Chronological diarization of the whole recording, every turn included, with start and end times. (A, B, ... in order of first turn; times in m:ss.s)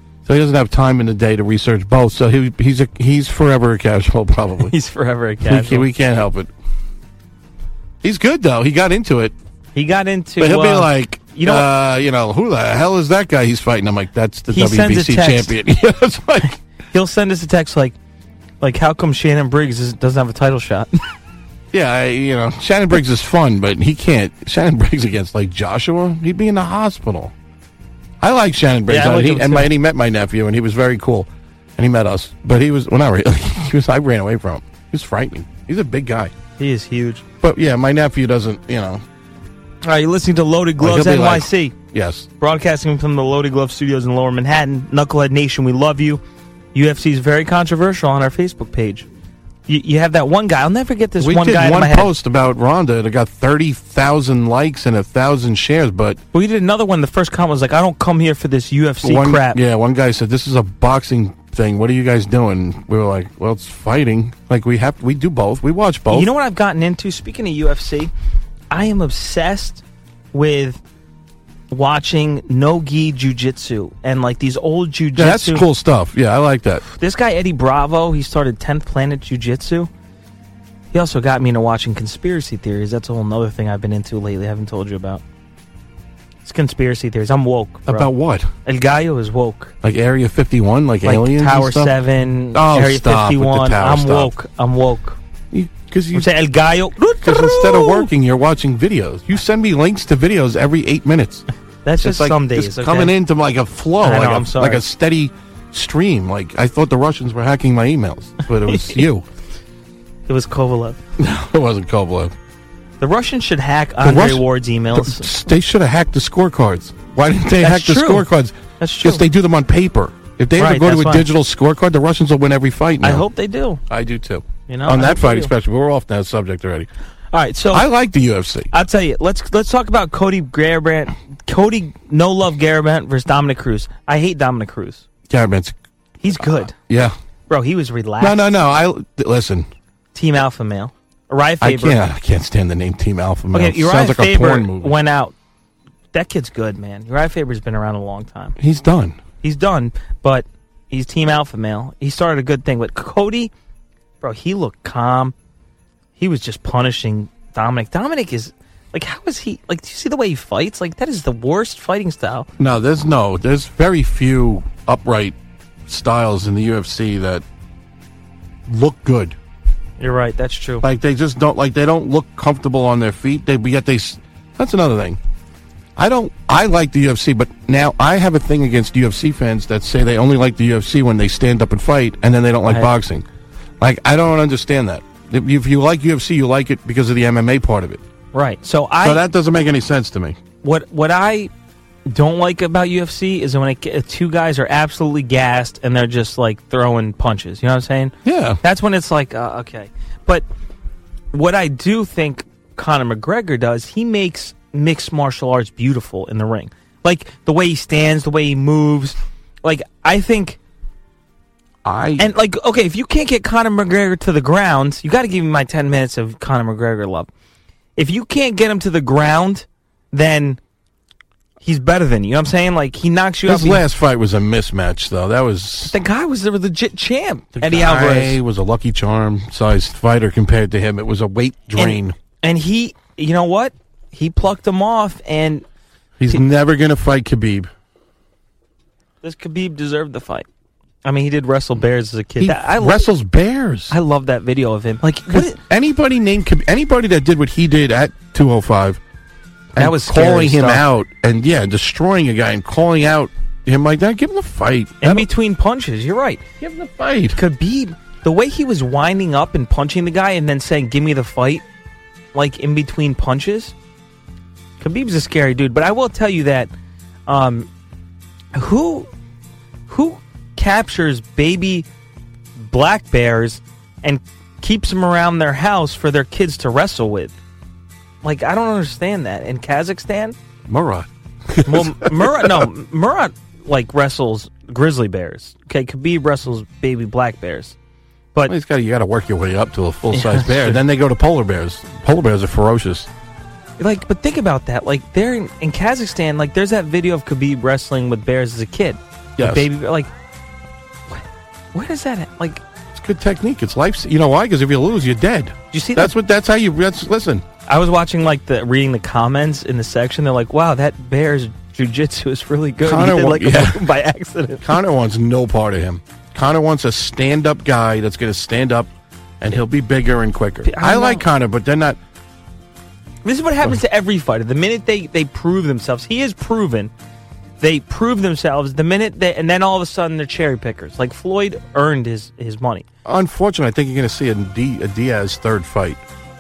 0:00.2-0:04.7 A
0:04.7-0:05.9 B
0:05.4-0:06.5 A
0:08.0-0:09.4 A
0:09.8-0:11.7 B
0:10.4-0:16.6 A
0:14.5-0:15.5 B
0:16.9-0:18.0 B
0:18.6-0:21.0 B
0:21.7-0:27.3 A
0:28.2-0:36.3 A
0:28.9-0:29.7 B
0:36.6-0:37.2 B
0:37.4-0:39.0 A
0:39.8-0:41.8 B
0:40.8-0:42.3 A
0:42.4-0:46.2 B
0:46.7-0:49.1 B
0:49.7-0:52.1 B
0:51.2-0:56.2 A
0:56.3-0:59.6 B
0:59.0-1:06.3 A
1:06.1-1:08.1 B
1:08.7-1:10.8 B
1:11.7-1:15.6 B
1:15.2-1:16.8 A
1:16.9-1:19.9 B
1:20.9-1:25.2 B
1:26.4-1:28.1 B
1:27.9-1:28.5 A
1:28.6-1:29.7 B
1:29.8-1:32.0 A
1:31.0-1:35.2 B
1:32.5-1:34.3 A
1:35.5-1:36.3 A
1:36.1-1:38.1 B
1:37.2-1:41.5 A
1:41.8-1:43.2 B
1:42.0-1:49.3 A
1:44.0-1:44.8 B
1:48.7-1:49.0 B
1:50.3-1:51.0 B
1:51.2-1:52.3 A
1:53.0-1:55.3 B
1:54.0-2:03.3 A
1:57.6-1:58.3 B
1:58.8-1:59.2 B
2:00.6-2:01.3 B
2:03.0-2:03.8 B
2:03.9-2:06.9 A
2:04.7-2:05.5 B
2:07.3-2:07.9 B
2:07.7-2:08.7 A
2:08.7-2:15.0 B
2:15.3-2:15.8 A
2:16.2-2:16.8 B
2:16.3-2:17.2 A
2:17.5-2:18.4 B
2:18.2-2:19.7 A
2:20.1-2:22.0 B
2:21.6-2:25.0 A
2:23.5-2:25.4 B
2:26.1-2:28.6 B
2:28.6-2:29.2 A
2:29.4-2:33.5 B
2:34.2-2:35.4 B
2:36.2-2:42.5 B
2:42.6-2:45.4 A
2:45.9-2:47.4 A
2:48.7-2:49.4 A
2:50.0-2:50.9 B
2:50.8-2:55.2 A
2:56.0-3:03.3 A
3:02.7-3:02.9 B
3:03.8-3:08.0 A
3:08.3-3:09.2 B
3:09.0-3:10.4 A
3:10.6-3:11.5 B
3:12.1-3:20.5 B
3:18.2-3:18.6 A
3:21.3-3:30.6 B
3:31.8-3:32.3 A
3:32.2-3:37.3 B
3:38.0-3:40.6 B
3:41.6-3:43.8 B
3:43.5-3:46.0 A
3:45.9-3:48.4 B
3:47.6-3:52.2 A
3:51.8-3:55.6 B
3:56.2-3:57.7 A
3:59.2-4:00.5 B
4:01.0-4:03.1 B
4:02.4-4:04.0 A
4:03.9-4:05.6 B
4:05.0-4:09.0 A
4:09.7-4:15.3 A
4:09.8-4:10.8 B
4:15.0-4:16.4 B
4:16.6-4:17.4 A
4:17.4-4:21.6 B
4:22.3-4:23.8 B
4:24.8-4:26.7 B
4:27.3-4:27.7 B
4:28.5-4:29.1 B
4:29.9-4:31.9 B
4:32.6-4:37.4 B
4:38.2-4:40.4 B
4:40.7-4:42.7 A
4:41.7-4:47.8 B
4:48.5-4:53.1 A
4:50.1-4:50.8 B
4:53.8-5:00.1 B
4:59.4-4:59.7 A
5:01.7-5:02.6 B
5:02.9-5:07.4 A
5:05.7-5:06.2 B
5:07.7-5:14.7 B
5:12.8-5:13.9 A
5:14.6-5:18.9 A
5:19.4-5:22.0 A
5:20.7-5:21.2 B
5:23.2-5:26.9 B
5:27.6-5:32.9 B
5:33.0-5:36.0 A